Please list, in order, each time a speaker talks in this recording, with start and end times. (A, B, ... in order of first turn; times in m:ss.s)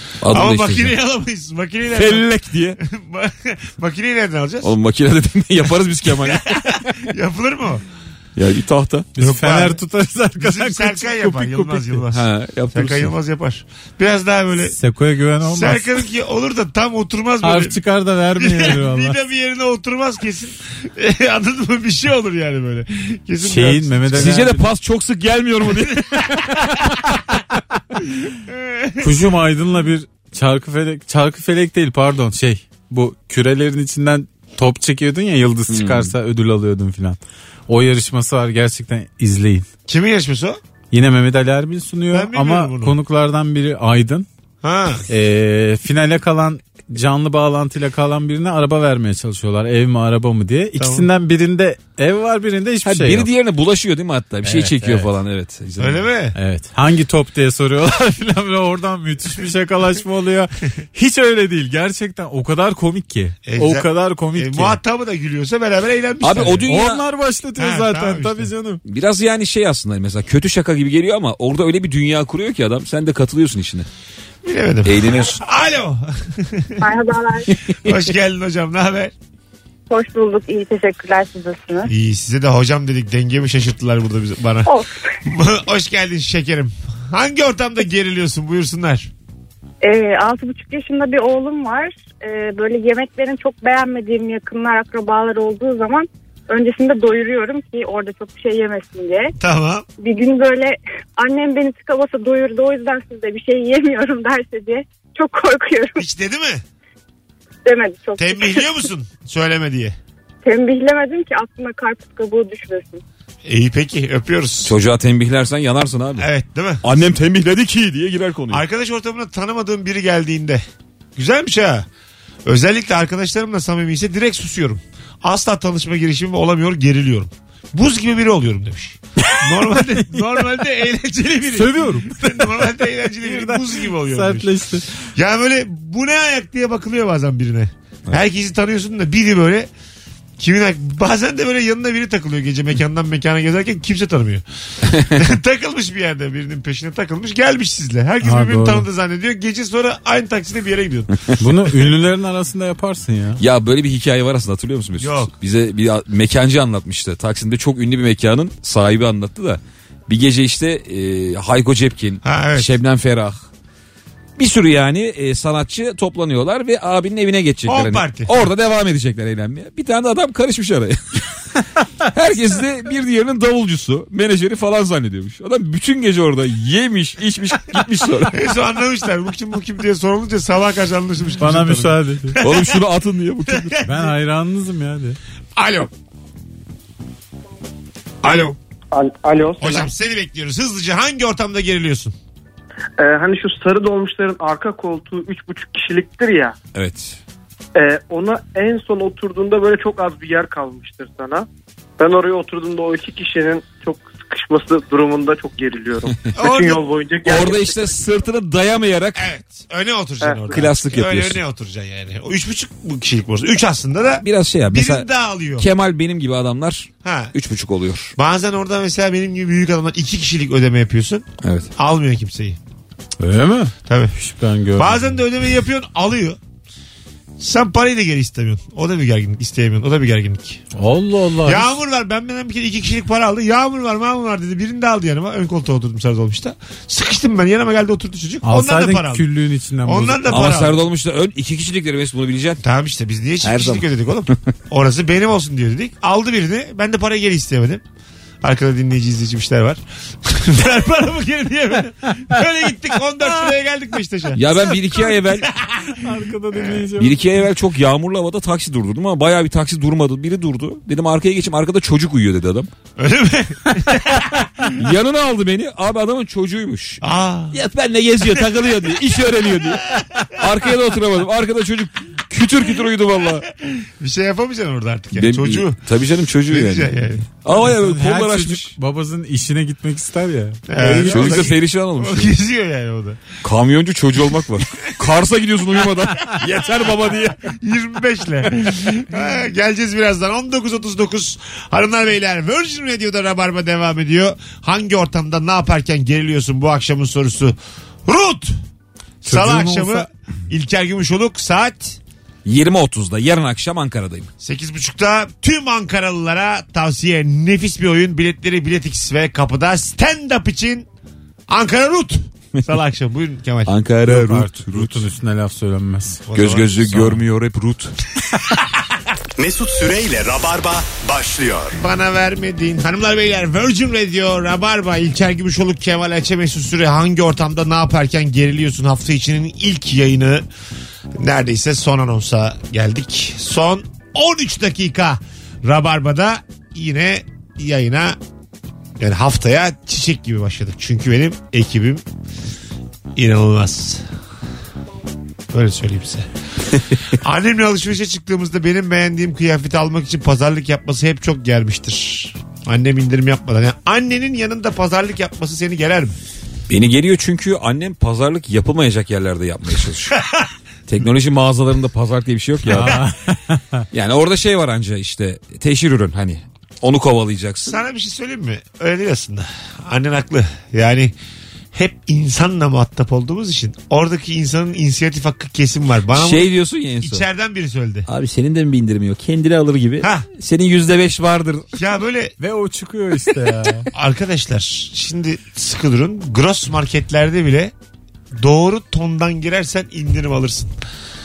0:00.2-0:00.9 A
0:00.2-0:02.3 B
0:01.9-0:02.8 A
0:02.8-0:04.7 B
0:04.6-0:07.0 A
0:06.2-0:07.8 B
0:08.4-0:09.1 A
0:09.2-0:12.0 C
0:09.2-0:09.8 B
0:10.4-0:14.8 B
0:12.1-0:13.1 A
0:14.6-0:16.0 C
0:15.4-0:17.8 B
0:17.4-0:19.2 C
0:18.4-0:24.4 B
0:23.4-0:24.6 C
0:24.1-0:26.9 A
0:26.0-0:26.4 B
0:28.4-0:29.2 B
0:29.0-0:39.6 C
0:35.7-0:36.1 A
0:39.9-0:40.6 B
0:40.9-0:44.3 C
0:42.1-0:43.0 B
0:44.6-0:45.0 B
0:45.1-0:53.3 C
0:50.8-0:51.1 B
0:52.8-0:56.0 A
0:54.4-0:55.1 C
0:55.8-0:56.4 B
0:56.4-1:04.8 C
1:03.4-1:06.6 B
1:06.2-1:07.0 A
1:06.7-1:08.8 C
1:07.6-1:08.5 B
1:08.8-1:13.9 A
1:14.4-1:16.8 B
1:14.8-1:15.4 A
1:16.8-1:17.5 D
1:17.8-1:19.1 B
1:19.9-1:21.9 D
1:21.9-1:24.7 B
1:24.7-1:25.1 D
1:25.2-1:29.1 B
1:29.8-1:39.3 D
1:39.4-1:39.8 B
1:40.0-1:46.0 D
1:46.0-1:46.6 B
1:47.6-1:48.6 D
1:48.2-1:50.0 B
1:50.4-1:53.0 D
1:53.4-1:54.7 B
1:54.6-1:56.3 A
1:56.2-1:56.8 B
1:56.8-1:58.6 A
1:58.5-2:00.6 B
2:01.2-2:01.9 B
2:02.4-2:14.5 B
2:09.3-2:10.3 C
2:11.5-2:14.9 C
2:15.1-2:19.7 B
2:20.4-2:31.1 B
2:24.9-2:25.2 A
2:28.2-2:28.9 C
2:31.4-2:33.4 C
2:33.4-2:43.5 A
2:35.0-2:35.3 B
2:42.2-2:42.8 B
2:44.4-2:51.4 A
2:47.6-2:48.4 B
2:52.1-2:58.4 A
2:58.3-3:02.8 B
3:01.4-3:02.4 C
3:02.4-3:03.8 A
3:03.5-3:04.1 B
3:03.8-3:05.2 C
3:05.6-3:05.9 B
3:08.2-3:08.6 B
3:08.9-3:09.9 E
3:09.6-3:12.1 B
3:13.0-3:16.6 E
3:16.7-3:17.2 A
3:17.7-3:21.5 E
3:22.0-3:28.0 E
3:26.3-3:26.8 B
3:27.2-3:29.3 A
3:29.2-3:35.7 B
3:30.2-3:30.6 E
3:30.5-3:31.4 A
3:34.2-3:38.1 A
3:37.0-3:37.3 B
3:38.2-3:41.2 B
3:41.4-3:41.7 A
3:41.8-3:42.6 B
3:43.2-3:45.2 C
3:43.8-3:44.1 B
3:44.8-3:46.4 B
3:47.4-3:50.6 B
3:50.7-3:51.7 C
3:51.4-3:59.3 B
3:58.4-4:00.4 C
3:59.8-4:00.8 B
4:00.3-4:02.6 A
4:02.6-4:07.8 B
4:03.4-4:04.4 A
4:08.4-4:15.9 B
4:14.4-4:15.5 A
4:15.9-4:17.1 C
4:16.5-4:16.8 B
4:17.0-4:22.7 A
4:23.0-4:24.7 B
4:24.8-4:33.5 A
4:27.0-4:27.6 B
4:33.6-4:35.8 B
4:35.1-4:38.7 A
4:36.5-4:37.2 B
4:37.5-4:41.5 C
4:40.7-4:43.2 B
4:40.9-4:42.3 A
4:43.4-4:47.4 A
4:46.4-4:58.6 B
4:59.2-5:02.0 B
4:59.2-5:00.1 C
5:02.4-5:04.3 A
5:04.4-5:10.9 B
5:11.5-5:13.7 B
5:13.7-5:15.0 A
5:14.1-5:16.2 C
5:16.3-5:16.7 B
5:16.3-5:17.9 A
5:16.9-5:17.2 C
5:19.4-5:21.8 F
5:21.8-5:30.4 B
5:31.2-5:38.2 B
5:39.0-5:42.0 B
5:43.2-5:44.0 B
5:45.5-5:46.3 B
5:47.1-5:56.2 B
5:56.7-6:00.2 A
6:00.2-6:00.5 B
6:00.9-6:03.0 A
6:02.7-6:03.8 C
6:03.9-6:07.8 A
6:07.6-6:11.1 B
6:11.7-6:18.0 B
6:16.1-6:17.2 A
6:18.1-6:21.7 A
6:20.0-6:20.3 B
6:21.7-6:22.3 B
6:22.4-6:23.9 C
6:23.9-6:27.7 B
6:28.3-6:30.7 B